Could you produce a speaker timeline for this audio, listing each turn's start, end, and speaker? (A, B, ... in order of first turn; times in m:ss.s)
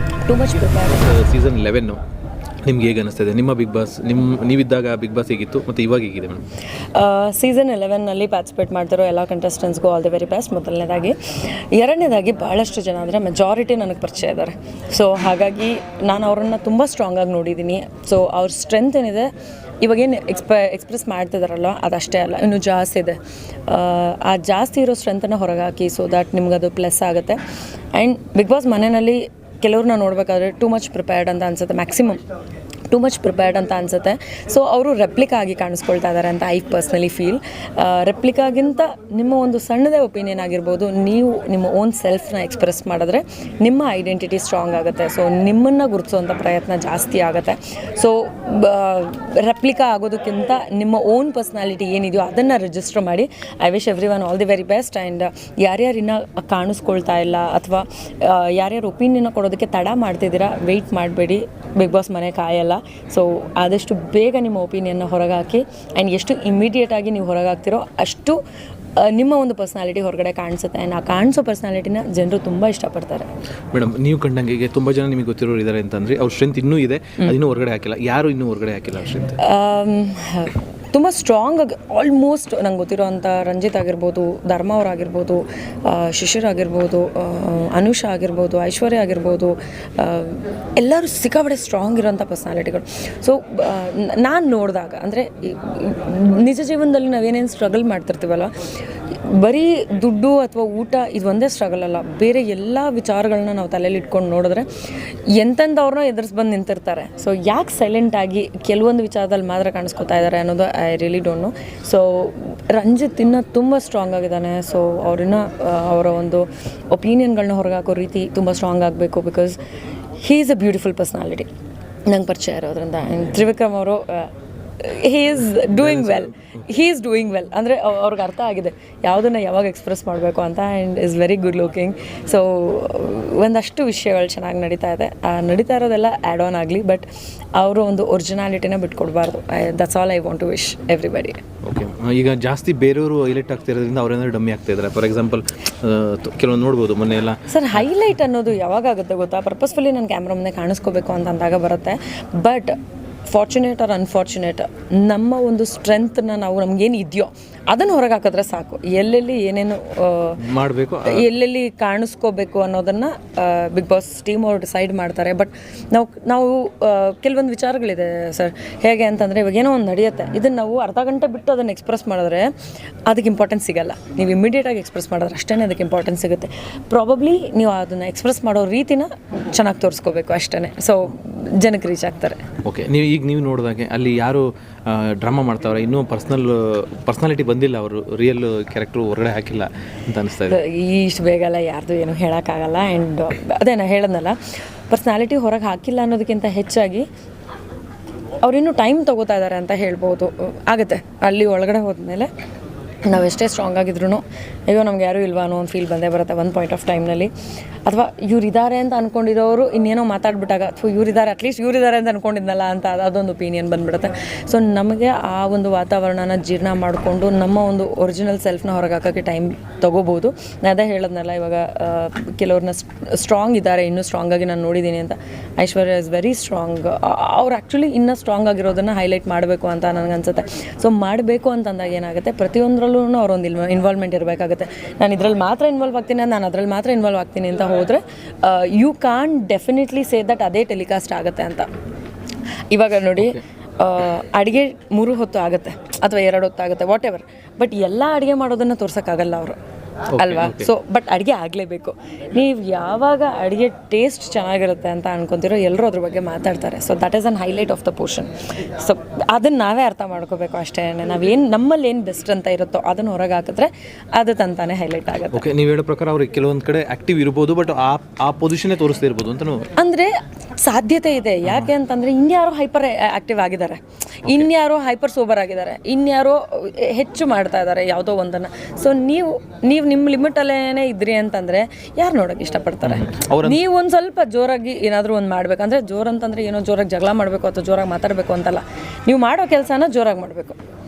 0:00.2-0:01.2 A
0:00.8-0:02.0 B
0:02.6-0:06.4 B
0:06.9-0:19.3 A
0:19.8-0:27.4 A
0:27.9-0:32.2 A
0:32.9-1:08.4 A
1:09.0-1:13.3 A
1:13.7-1:19.4 B
1:19.4-1:38.5 A
1:39.1-1:44.7 A
1:45.3-1:59.6 A
2:00.2-2:01.5 A
2:02.1-2:21.4 A
2:05.8-2:06.4 B
2:21.6-2:27.4 B
2:27.5-2:32.8 A
2:33.3-2:40.4 A
2:40.4-2:41.3 B
2:41.0-2:52.5 A
2:53.1-3:02.4 A
3:02.6-3:10.6 B
3:10.5-3:14.4 A
3:14.9-3:17.1 A
3:18.4-3:22.3 A
3:23.0-3:27.3 A
3:27.9-4:01.7 A
4:02.7-4:09.6 A
4:10.1-4:10.7 B
4:10.2-4:25.4 A
4:25.3-4:29.7 B
4:29.8-4:50.6 A
4:42.8-4:43.6 B